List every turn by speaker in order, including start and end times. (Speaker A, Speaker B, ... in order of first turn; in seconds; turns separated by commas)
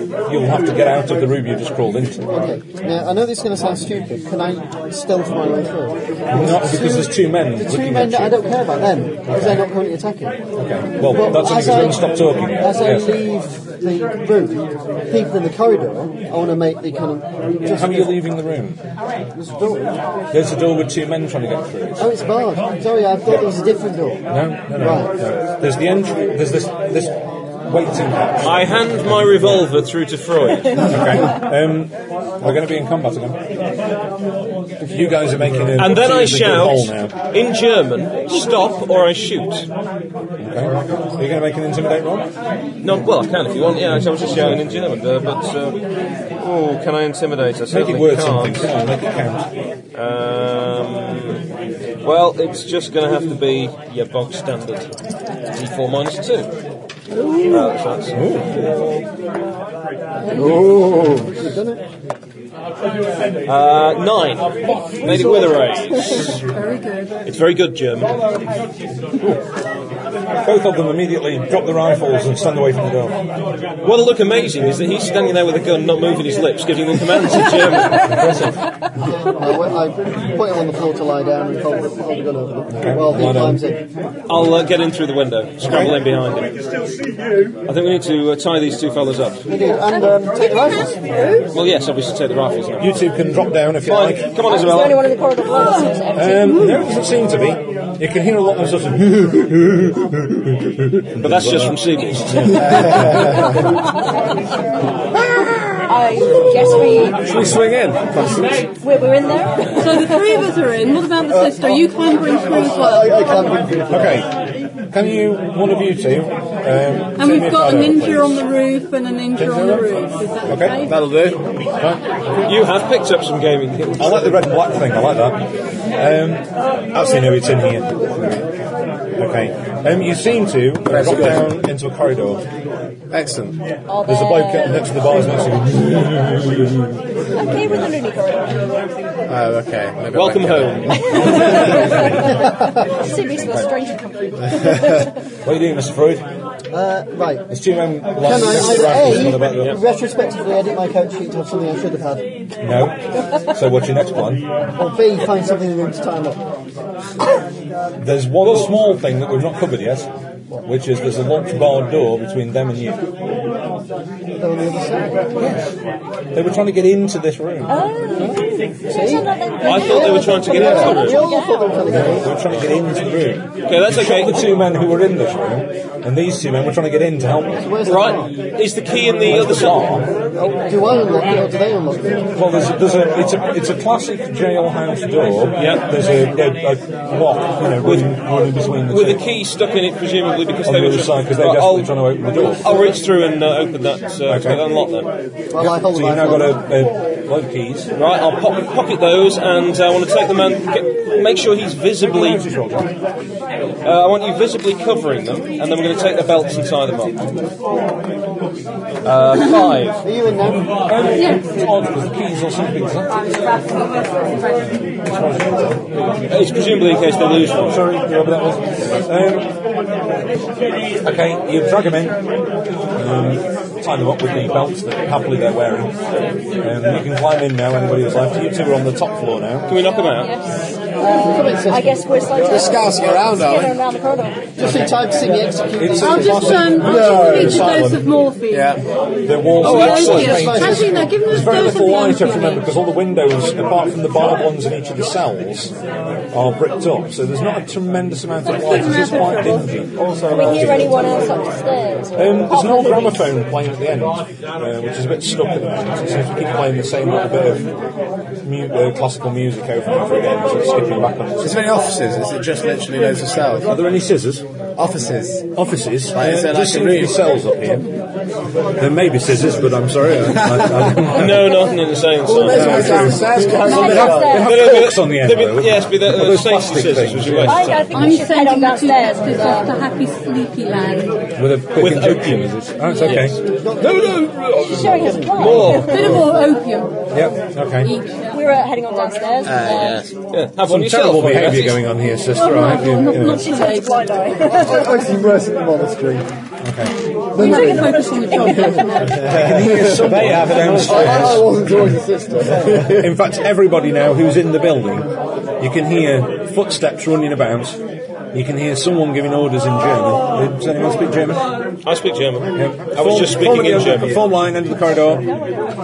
Speaker A: 0.3-2.3, Speaker B: 2.3-10.4, Speaker A: 6.3-8.5, Speaker A: 9.3-9.7, Speaker A: 10.6-13.2, Speaker B: 11.0-18.2, Speaker A: 17.6-18.8, Speaker B: 19.3-20.0, Speaker A: 20.3-22.1, Speaker B: 22.0-25.1, Speaker A: 24.3-29.7, Speaker C: 28.4-31.1, Speaker A: 30.8-33.4, Speaker A: 34.8-37.1, Speaker C: 35.7-39.7, Speaker A: 40.4-42.3, Speaker C: 42.8-45.8, Speaker A: 43.9-44.6, Speaker C: 46.4-48.7, Speaker A: 47.7-49.5, Speaker C: 49.9-51.4, Speaker C: 52.0-54.9, Speaker C: 55.5-56.5, Speaker D: 57.2-57.7, Speaker C: 57.5-58.2, Speaker A: 58.1-58.7, Speaker E: 60.4-61.4, Speaker B: 61.3-61.8, Speaker C: 63.5-66.4, Speaker D: 65.0-65.6, Speaker F: 66.2-67.2, Speaker C: 67.2-68.1, Speaker A: 70.4-73.2, Speaker C: 73.8-78.4, Speaker A: 78.0-78.5, Speaker B: 79.0-83.8, Speaker A: 82.7-83.7, Speaker C: 84.3-86.6, Speaker A: 85.6-86.0, Speaker C: 87.6-89.5, Speaker B: 89.5-91.4, Speaker D: 89.8-91.5, Speaker C: 91.5-93.0, Speaker A: 92.8-94.3, Speaker C: 93.8-95.1, Speaker D: 94.4-96.6, Speaker A: 96.1-103.7, Speaker C: 101.2-103.5, Speaker A: 105.2-105.6, Speaker D: 105.9-107.4, Speaker E: 107.2-108.7, Speaker A: 107.3-107.7, Speaker D: 108.8-110.5, Speaker F: 109.8-113.5, Speaker G: 111.3-114.2, Speaker A: 113.9-114.3, Speaker A: 114.9-118.4, Speaker F: 117.2-121.0, Speaker A: 119.4-119.8, Speaker A: 120.5-120.9, Speaker E: 120.8-121.4, Speaker C: 122.4-124.3, Speaker A: 124.0-125.4, Speaker A: 126.0-128.4, Speaker A: 129.2-132.4, Speaker E: 130.9-131.6, Speaker E: 133.1-133.6, Speaker D: 133.9-135.2, Speaker A: 134.0-137.0, Speaker D: 137.3-138.7, Speaker A: 137.5-138.0, Speaker E: 139.3-140.9, Speaker C: 140.1-141.5, Speaker D: 140.9-145.1, Speaker A: 141.5-142.1, Speaker A: 145.4-146.2, Speaker B: 146.7-147.5, Speaker A: 147.5-149.8, Speaker B: 148.2-152.2, Speaker C: 149.5-149.8, Speaker A: 152.6-154.4, Speaker B: 154.8-156.4, Speaker A: 158.0-160.1, Speaker A: 160.6-163.0, Speaker B: 164.4-165.3, Speaker A: 165.4-165.7, Speaker A: 166.3-167.9, Speaker D: 167.7-172.0, Speaker B: 168.9-172.3, Speaker C: 169.6-171.3, Speaker A: 171.8-177.7, Speaker C: 173.7-174.5, Speaker B: 177.5-178.3, Speaker C: 177.8-180.0, Speaker A: 179.2-180.1, Speaker B: 180.4-182.3, Speaker A: 182.3-189.2, Speaker C: 185.6-185.9, Speaker C: 187.8-188.2, Speaker C: 188.9-195.1, Speaker A: 190.6-192.8, Speaker A: 194.3-194.6, Speaker B: 195.5-196.6, Speaker A: 195.6-197.9, Speaker C: 197.9-202.4, Speaker A: 202.1-202.9, Speaker C: 203.8-207.2, Speaker C: 209.0-210.0, Speaker B: 210.0-210.7, Speaker A: 210.8-213.3, Speaker F: 211.2-211.4, Speaker A: 214.6-215.9, Speaker C: 216.3-217.8, Speaker A: 217.6-219.5, Speaker A: 221.0-222.2, Speaker A: 222.9-225.9, Speaker A: 226.6-229.7, Speaker C: 229.7-230.3, Speaker D: 229.9-234.6, Speaker B: 231.1-232.6, Speaker E: 232.5-233.8, Speaker B: 234.6-237.0, Speaker A: 235.8-238.1, Speaker F: 236.0-238.8, Speaker E: 236.9-237.6, Speaker E: 238.5-238.8, Speaker A: 239.2-245.7, Speaker C: 239.6-240.5, Speaker F: 239.6-242.8, Speaker B: 240.1-241.2, Speaker A: 246.3-251.0, Speaker F: 248.4-249.7, Speaker B: 250.0-250.3, Speaker D: 250.3-253.3, Speaker A: 252.2-257.7, Speaker A: 258.4-261.6, Speaker E: 261.4-263.7, Speaker A: 263.7-264.4, Speaker E: 264.8-265.5, Speaker A: 265.6-267.9, Speaker E: 266.1-267.2, Speaker A: 268.8-271.6, Speaker E: 270.4-271.0, Speaker C: 271.1-272.8, Speaker E: 272.2-274.4, Speaker A: 272.5-277.8, Speaker G: 272.6-273.9, Speaker D: 273.5-274.6, Speaker C: 274.3-278.1, Speaker D: 277.4-279.7, Speaker F: 277.9-281.3, Speaker A: 281.4-286.1, Speaker C: 281.8-283.4, Speaker B: 283.6-285.6, Speaker D: 284.6-286.4, Speaker C: 285.3-286.2, Speaker F: 285.6-286.9, Speaker A: 287.1-287.9, Speaker F: 287.8-288.4, Speaker D: 288.3-290.1, Speaker E: 289.4-290.1, Speaker C: 290.3-291.9, Speaker A: 290.6-293.5, Speaker D: 292.4-295.0, Speaker F: 292.4-294.1, Speaker G: 294.5-296.2, Speaker A: 296.6-296.9, Speaker G: 297.3-298.5, Speaker F: 297.4-299.3, Speaker D: 297.4-299.3, Speaker A: 299.2-301.6, Speaker G: 299.2-303.1, Speaker E: 299.2-301.4, Speaker B: 300.9-301.6, Speaker A: 302.8-305.1, Speaker A: 305.6-307.8, Speaker A: 308.3-311.4, Speaker C: 311.8-314.3, Speaker A: 312.5-315.3, Speaker D: 315.3-315.6